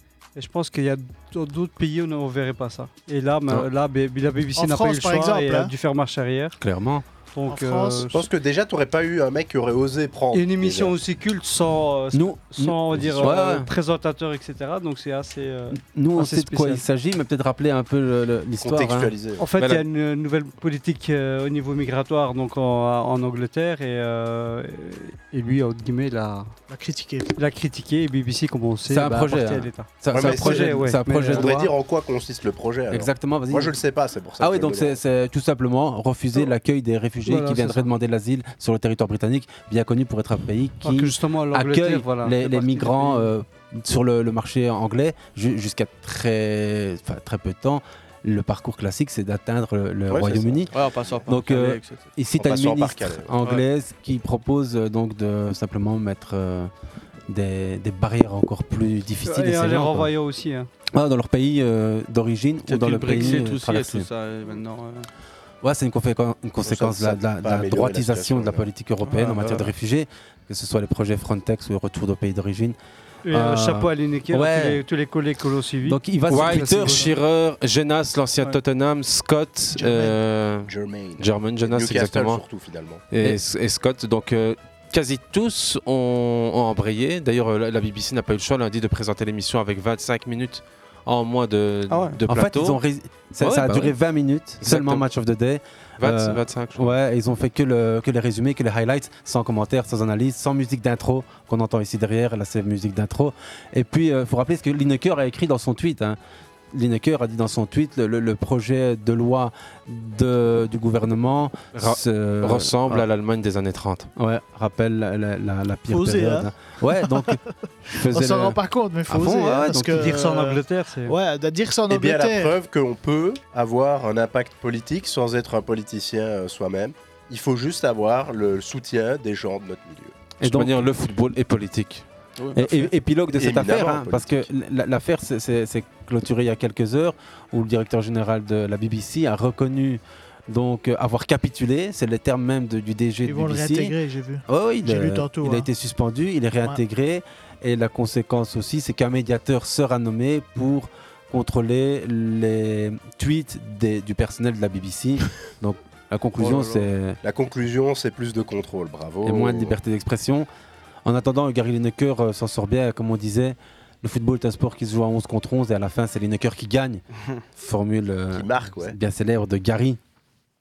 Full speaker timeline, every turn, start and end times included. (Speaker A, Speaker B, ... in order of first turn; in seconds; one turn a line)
Speaker A: 0.3-6.5
Speaker B: 4.5-5.7
Speaker C: 6.6-7.0
Speaker A: 7.3-8.2
Speaker B: 7.5-8.1
Speaker D: 8.1-10.9
Speaker A: 10.3-16.8
Speaker C: 12.1-13.7
Speaker C: 15.7-19.1
Speaker D: 18.6-19.4
Speaker A: 19.4-26.5
Speaker B: 26.7-27.4
Speaker A: 27.4-31.7
Speaker C: 28.9-31.6
Speaker D: 30.1-35.0
Speaker C: 32.9-33.7
Speaker C: 34.4-50.7
Speaker A: 37.2-37.9
Speaker A: 40.8-43.3
Speaker D: 50.1-50.7
Speaker E: 50.7-52.0
Speaker C: 51.3-56.7
Speaker D: 52.4-53.3
Speaker C: 57.3-60.1
Speaker A: 59.2-60.7
Speaker C: 60.9-64.1
Speaker E: 62.7-65.1
Speaker C: 65.6-72.8
Speaker D: 66.6-68.7
Speaker E: 69.0-69.7
Speaker A: 73.2-77.1
Speaker C: 73.3-74.8
Speaker C: 75.8-77.1
Speaker F: 76.3-82.4
Speaker B: 79.8-80.2
Speaker D: 80.6-83.0
Speaker F: 83.1-92.8
Speaker E: 91.9-92.2
Speaker C: 92.3-106.2
Speaker F: 93.4-94.0
Speaker F: 94.6-95.1
Speaker F: 96.0-96.9
Speaker C: 106.7-113.0
Speaker F: 111.7-114.1
Speaker C: 114.2-118.6
Speaker B: 115.9-116.5
Speaker B: 117.1-117.4
Speaker B: 118.1-122.5
Speaker C: 119.1-120.1
Speaker A: 119.9-121.2
Speaker D: 121.9-130.2
Speaker C: 130.4-131.0
Speaker F: 130.4-132.0
Speaker C: 132.6-143.9
Speaker D: 133.3-134.5
Speaker B: 143.2-145.7
Speaker C: 144.5-157.2
Speaker E: 156.4-156.8
Speaker D: 157.2-159.8
Speaker C: 159.2-160.5
Speaker C: 161.0-167.0
Speaker C: 167.6-170.0
Speaker D: 168.3-168.9